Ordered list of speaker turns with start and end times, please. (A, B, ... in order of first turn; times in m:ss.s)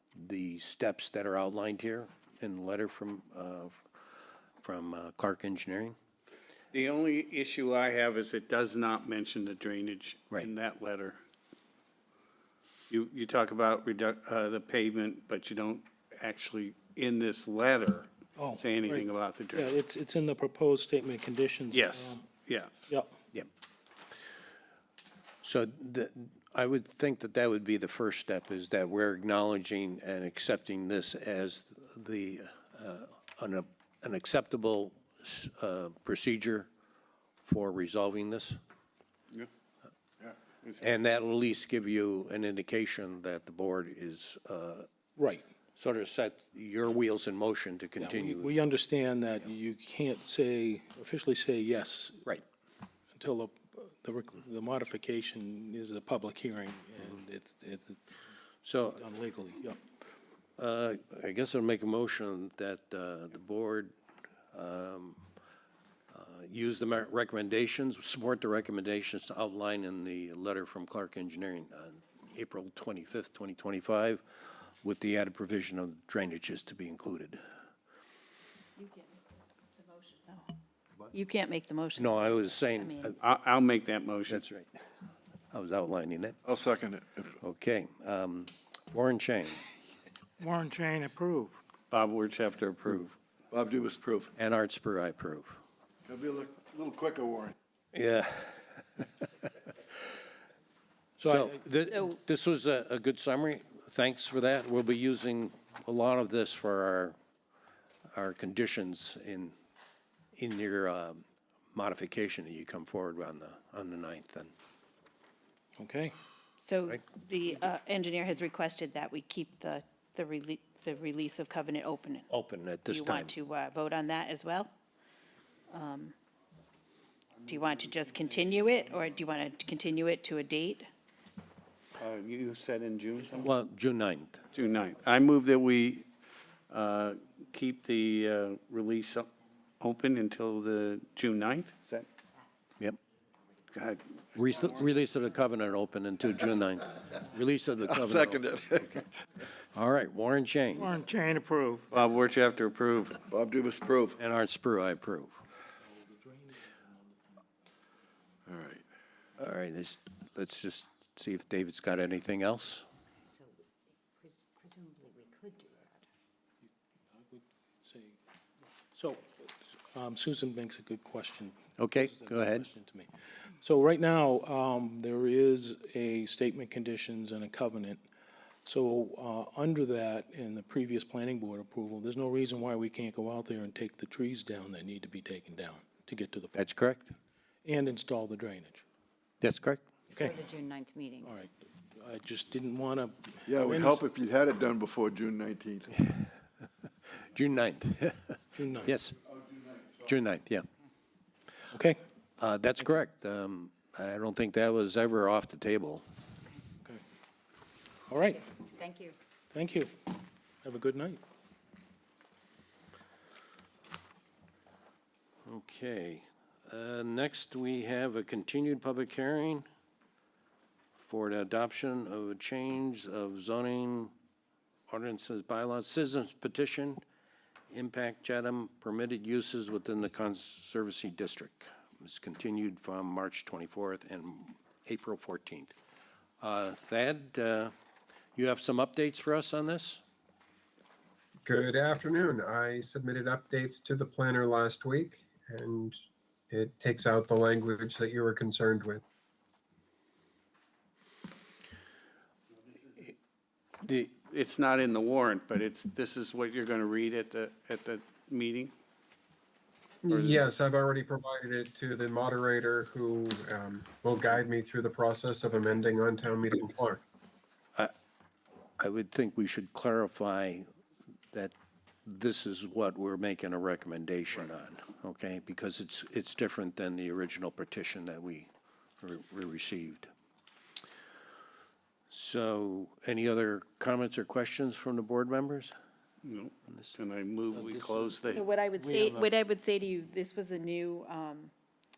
0:00.2-0:03.8 A
0:04.6-0:06.0 A
0:06.7-0:11.2 B
0:12.9-0:19.7 B
0:18.4-0:22.2 C
0:21.7-0:22.7 B
0:25.4-0:36.7 A
0:37.5-0:38.6 A
0:40.8-0:44.9 A
0:45.2-0:45.4 C
0:45.8-0:48.6 A
0:48.0-0:52.3 C
0:53.2-0:58.0 C
0:58.6-0:59.0 A
0:58.9-0:59.8 C
1:00.6-1:03.9 A
1:04.5-1:05.2 A
1:06.1-1:17.4 A
1:18.8-1:19.1 D
1:19.8-1:20.4 D
1:21.1-1:23.2 D
1:22.0-1:23.2 A
1:23.2-1:24.4 B
1:24.3-1:24.7 A
1:25.5-1:26.4 A
1:26.4-1:27.4 E
1:27.4-1:29.6 A
1:30.4-1:31.6 F
1:31.9-1:33.1 B
1:33.5-1:34.3 E
1:34.4-1:35.6 A
1:36.0-1:37.5 E
1:37.9-1:38.8 A
1:41.2-1:41.6 C
1:41.2-1:47.2 A
1:48.1-1:49.5 A
1:50.4-1:54.5 A
1:55.8-1:56.1 C
1:56.6-2:02.3 D
2:02.3-2:03.3 A
2:02.9-2:04.7 D
2:05.7-2:06.1 D
2:07.4-2:10.9 D
2:12.0-2:13.5 B
2:13.4-2:14.4 A
2:14.5-2:16.1 B
2:16.7-2:22.1 B
2:23.7-2:24.0 B
2:24.3-2:29.0 A
2:27.8-2:29.0 E
2:29.7-2:31.0 A
2:30.8-2:31.9 F
2:31.9-2:33.2 B
2:33.3-2:34.2 E
2:34.2-2:35.4 A
2:35.9-2:37.3 C
2:38.5-2:38.8 E
2:39.4-2:42.9 A
2:43.3-2:43.5 G
2:44.2-2:46.0 G
2:47.1-2:48.2 C
2:48.9-2:58.0 C
2:51.8-2:52.7 A
2:58.6-3:06.6 C
3:06.6-3:07.2 A
3:07.6-3:08.8 C
3:09.4-3:09.8 A
3:10.1-3:11.3 G
3:10.1-3:10.4 C
3:11.2-3:14.1 C
3:13.5-3:15.9 E
3:16.0-3:16.3 A
3:17.2-3:19.2 A
3:18.6-3:18.9 C
3:20.0-3:20.7 A
3:21.7-3:22.0 C
3:22.4-3:26.0 A
3:28.1-3:28.5 C
3:28.8-3:29.2 G
3:29.5-3:31.2 C
3:35.4-3:39.7 A
3:41.0-3:44.1 A
3:44.9-3:47.0 A
3:47.7-3:55.7 A
3:56.4-3:57.7 A
3:58.4-4:00.0 A
4:01.4-4:06.0 H
4:06.5-4:09.0 H
4:13.8-4:14.1 A
4:14.3-4:18.7 B
4:20.0-4:27.0 H
4:20.1-4:20.4 B
4:28.8-4:30.6 A
4:31.3-4:38.5 A
4:39.0-4:40.1 A
4:42.1-4:45.7 A
4:46.2-4:48.4 B
4:48.3-4:51.5 D